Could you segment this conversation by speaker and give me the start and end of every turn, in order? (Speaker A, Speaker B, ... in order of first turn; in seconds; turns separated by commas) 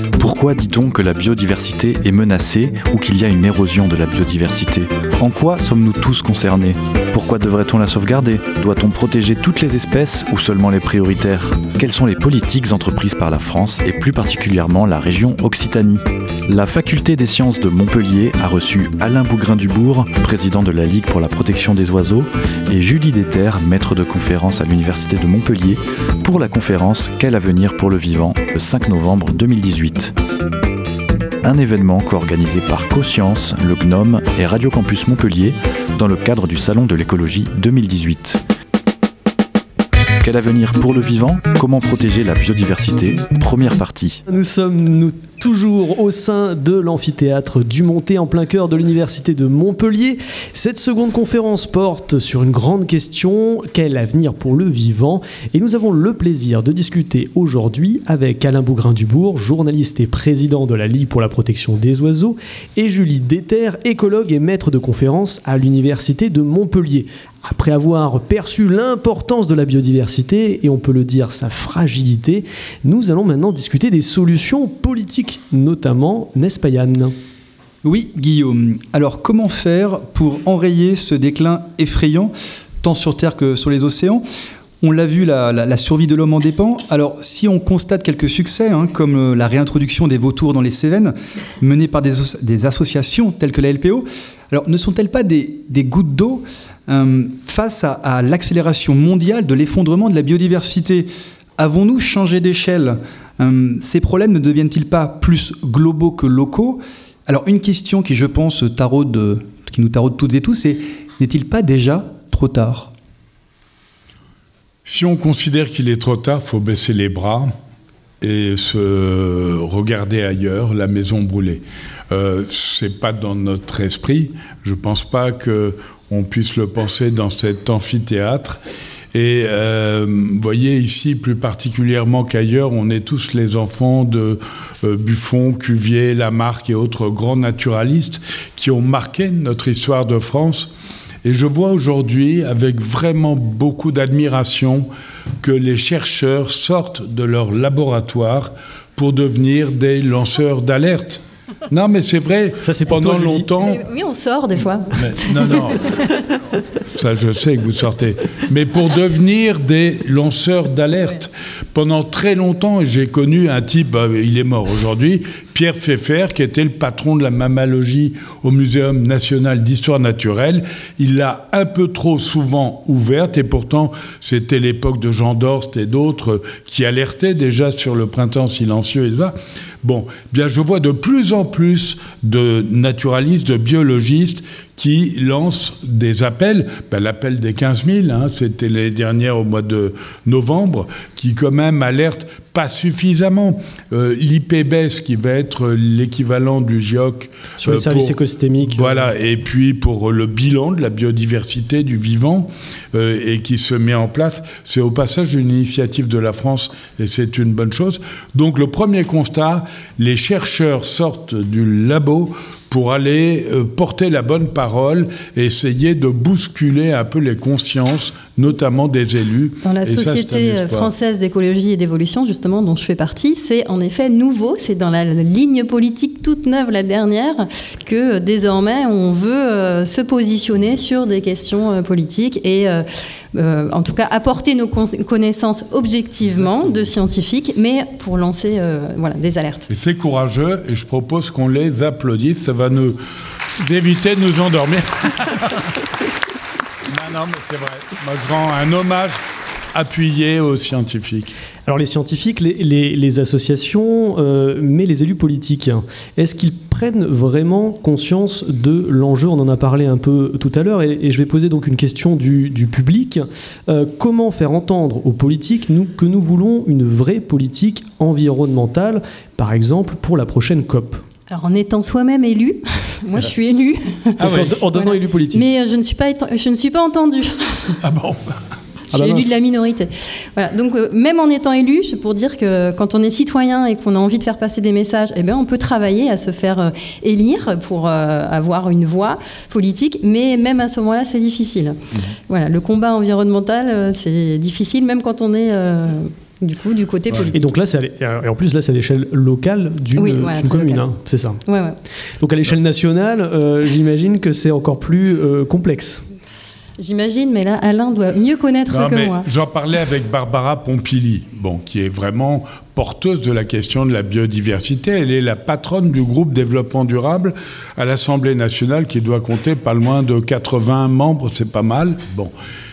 Speaker A: 0.2-30.1, Speaker A: 31.4-38.4, Speaker A: 40.2-44.2, Speaker B: 44.3-77.1, Speaker C: 77.8-84.2, Speaker C: 84.8-101.1, Speaker C: 101.6-112.9, Speaker D: 114.8-117.5, Speaker D: 118.2-128.6, Speaker D: 129.1-140.7, Speaker D: 141.2-144.9, Speaker D: 145.4-153.8, Speaker B: 152.6-153.5, Speaker E: 153.6-156.1, Speaker D: 154.9-156.0, Speaker D: 156.9-220.9, Speaker B: 197.6-199.1, Speaker E: 219.6-239.7, Speaker D: 239.7-243.0, Speaker D: 243.6-245.7, Speaker D: 246.8-249.2, Speaker D: 249.7-251.3, Speaker B: 251.7-271.0, Speaker E: 271.3-277.8, Speaker B: 274.2-275.4, Speaker D: 274.2-274.6, Speaker D: 277.8-278.4, Speaker B: 278.9-279.3, Speaker E: 278.9-297.4, Speaker B: 297.3-301.4, Speaker E: 299.9-300.9, Speaker E: 301.4-301.8, Speaker B: 302.2-306.0, Speaker E: 306.8-309.2, Speaker D: 308.7-322.3